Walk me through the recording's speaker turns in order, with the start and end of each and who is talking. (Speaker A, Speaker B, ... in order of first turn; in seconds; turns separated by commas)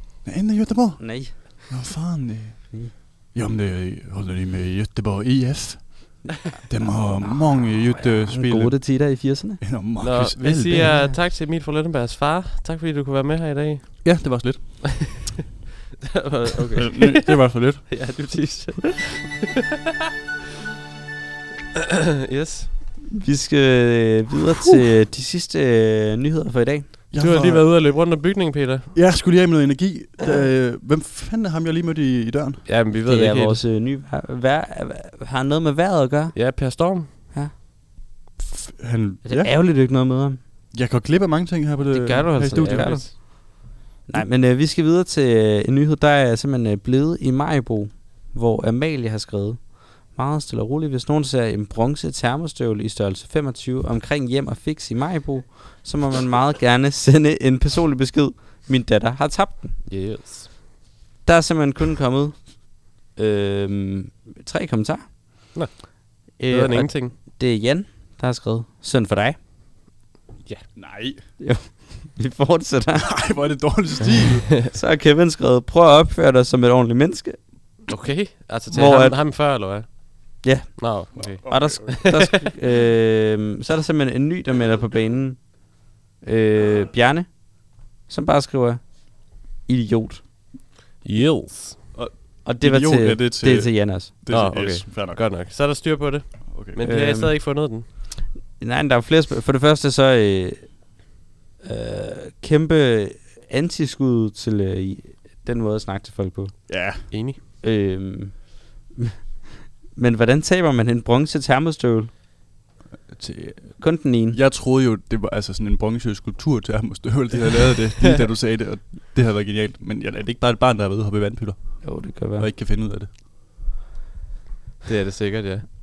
Speaker A: 0.2-11.0, Speaker B: 1.0-1.3, Speaker B: 6.8-9.6, Speaker C: 10.0-14.2, Speaker B: 10.7-11.2, Speaker A: 14.0-15.1, Speaker C: 16.0-17.2, Speaker A: 16.8-17.9, Speaker C: 17.9-19.5, Speaker C: 21.8-22.7, Speaker B: 23.1-27.0, Speaker A: 27.1-27.7, Speaker C: 27.1-28.9, Speaker A: 28.9-32.8, Speaker C: 32.6-33.6, Speaker B: 32.9-36.8, Speaker C: 36.3-37.1, Speaker A: 38.4-39.5, Speaker B: 39.2-40.4, Speaker A: 40.7-43.3, Speaker C: 41.9-43.1, Speaker B: 42.4-43.3, Speaker B: 44.1-59.8, Speaker C: 59.9-60.5, Speaker B: 61.2-62.6, Speaker B: 63.1-65.5, Speaker C: 65.5-67.1, Speaker B: 66.4-69.4, Speaker A: 70.7-71.2, Speaker B: 71.4-73.2, Speaker A: 73.0-74.5, Speaker B: 74.6-77.4, Speaker C: 77.9-82.4, Speaker B: 78.7-79.2, Speaker B: 80.4-85.7, Speaker A: 81.1-82.0, Speaker B: 86.2-90.2, Speaker C: 91.0-91.8, Speaker A: 91.9-95.2, Speaker B: 92.4-94.1, Speaker C: 94.3-97.9, Speaker A: 96.5-96.8, Speaker B: 96.8-97.4, Speaker B: 98.6-100.9, Speaker B: 101.6-106.8, Speaker A: 106.7-107.0, Speaker C: 107.1-107.4, Speaker B: 107.6-109.1, Speaker B: 109.9-112.2, Speaker A: 113.1-123.1, Speaker B: 113.8-114.4, Speaker B: 121.8-122.5, Speaker C: 124.8-125.7